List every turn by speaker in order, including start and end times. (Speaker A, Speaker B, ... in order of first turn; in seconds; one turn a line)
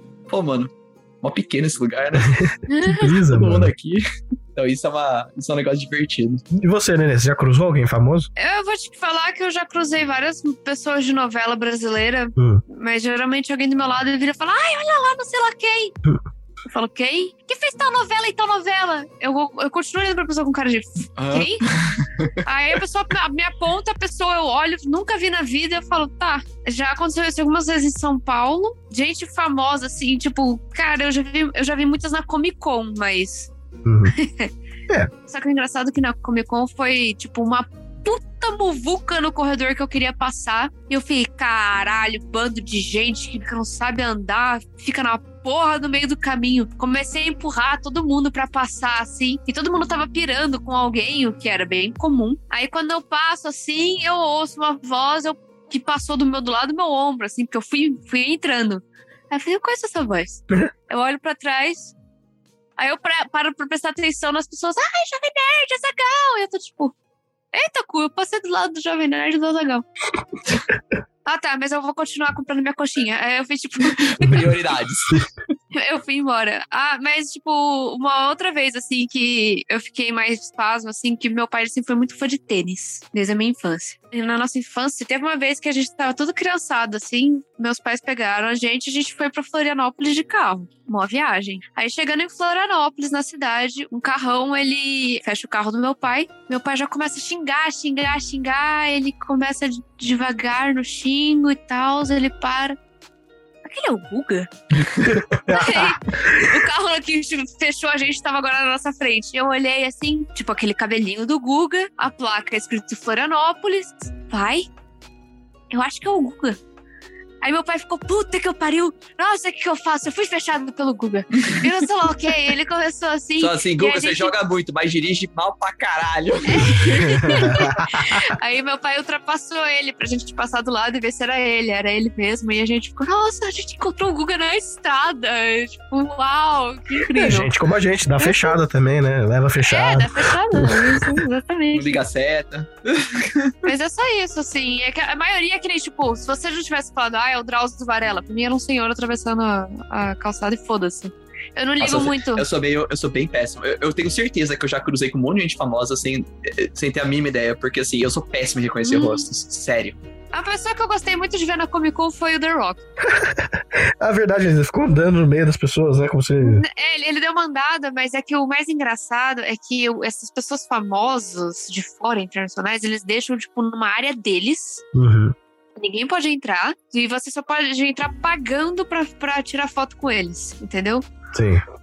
Speaker A: 0.3-0.7
Speaker A: 1.2-2.5
Speaker B: 2.2-3.7
Speaker C: 2.7-3.1
Speaker A: 3.3-4.0
Speaker A: 4.5-6.4
Speaker B: 6.5-8.3
Speaker C: 8.4-15.9
Speaker B: 12.4-12.6
Speaker C: 16.7-21.6
Speaker A: 21.2-22.3
Speaker C: 22.4-33.5
Speaker B: 33.8-34.1
Speaker C: 34.1-34.5
Speaker C: 35.3-61.9
Speaker C: 62.8-66.9
Speaker C: 67.5-69.8
Speaker C: 71.2-74.5
Speaker A: 73.9-75.2
Speaker C: 75.7-102.8
Speaker C: 103.7-104.5
Speaker A: 104.8-105.1
Speaker B: 105.0-106.5
Speaker C: 105.5-114.7
Speaker C: 115.7-116.6
Speaker C: 117.4-124.3
Speaker A: 121.3-121.6
Speaker A: 123.4-127.6
Speaker C: 126.5-137.5
Speaker B: 127.2-128.2
Speaker B: 137.1-141.2
Speaker C: 138.2-138.6
Speaker C: 139.7-142.0
Speaker A: 141.7-143.5
Speaker C: 143.6-152.4
Speaker A: 151.8-160.0
Speaker C: 158.8-159.2
Speaker C: 160.3-162.8
Speaker B: 163.0-166.6
Speaker C: 166.4-174.8
Speaker B: 174.9-175.3
Speaker C: 175.8-181.0
Speaker B: 181.3-181.6